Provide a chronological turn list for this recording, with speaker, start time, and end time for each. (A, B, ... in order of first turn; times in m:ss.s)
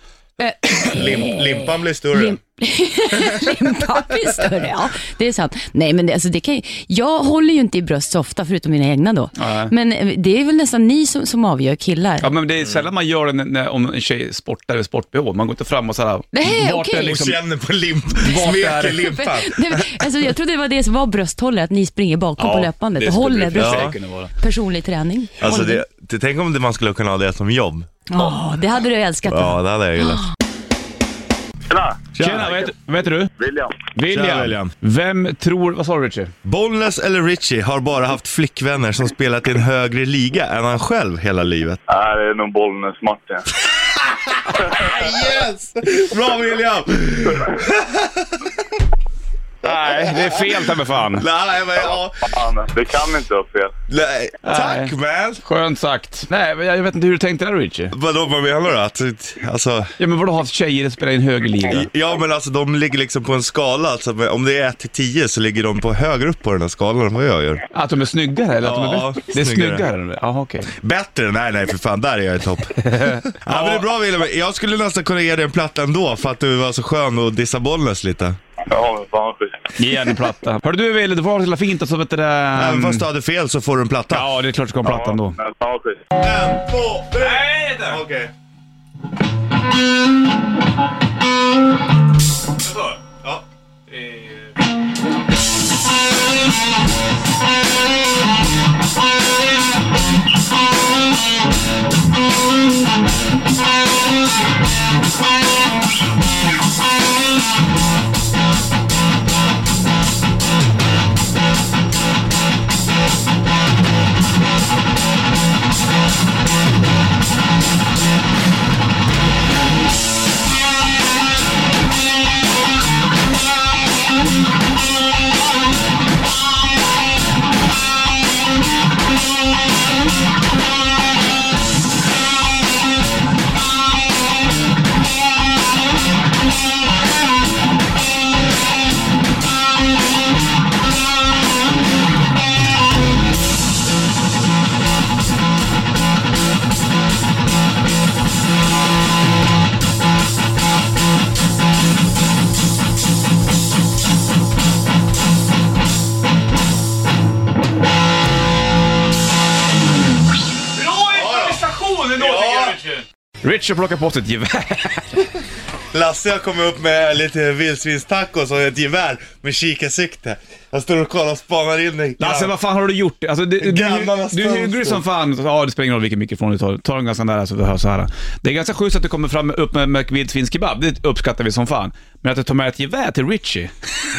0:00.4-0:12.3 A
0:00.8-0:02.4 B
0:03.1-0:03.8 B
0:09.4-0:09.7 C
0:12.2-0:17.4 C
0:16.3-0:17.2 A
0:17.0-0:20.1 B
0:18.2-0:19.1 C
0:19.0-0:25.8 A
0:22.4-0:24.3 C
0:23.6-0:23.9 B
0:25.4-0:28.1 B
0:28.1-0:30.2 A
0:29.2-0:30.2 B
0:31.7-0:32.7 D
0:32.1-0:32.5 B
0:32.2-0:33.3 C
0:33.4-0:33.8 D
0:33.8-0:36.3 C
0:34.1-0:34.7 B
0:36.4-0:41.8 B
0:41.9-0:43.4 D
0:44.0-0:48.6 B
0:49.6-0:51.2 C
0:49.7-0:52.3 B
0:51.8-0:53.8 D
0:53.9-0:55.4 B
0:54.4-0:57.9 C
0:57.9-0:59.9 B
1:00.0-1:01.9 C
1:01.7-1:07.6 B
1:07.7-1:10.7 C
1:08.6-1:09.9 B
1:10.8-1:18.4 B
1:12.8-1:13.8 C
1:18.7-1:19.6 D
1:19.8-1:23.0 C
1:22.5-1:24.3 B
1:24.1-1:25.4 C
1:24.8-1:26.0 D
1:26.2-1:28.3 B
1:27.2-1:28.0 C
1:32.7-1:32.9 C
1:33.9-1:34.3 C
2:40.7-2:45.2 C
2:41.1-2:41.6 B
2:42.2-2:42.8 B
2:45.9-2:52.6 B
2:52.2-3:03.7 C
2:53.6-2:55.0 B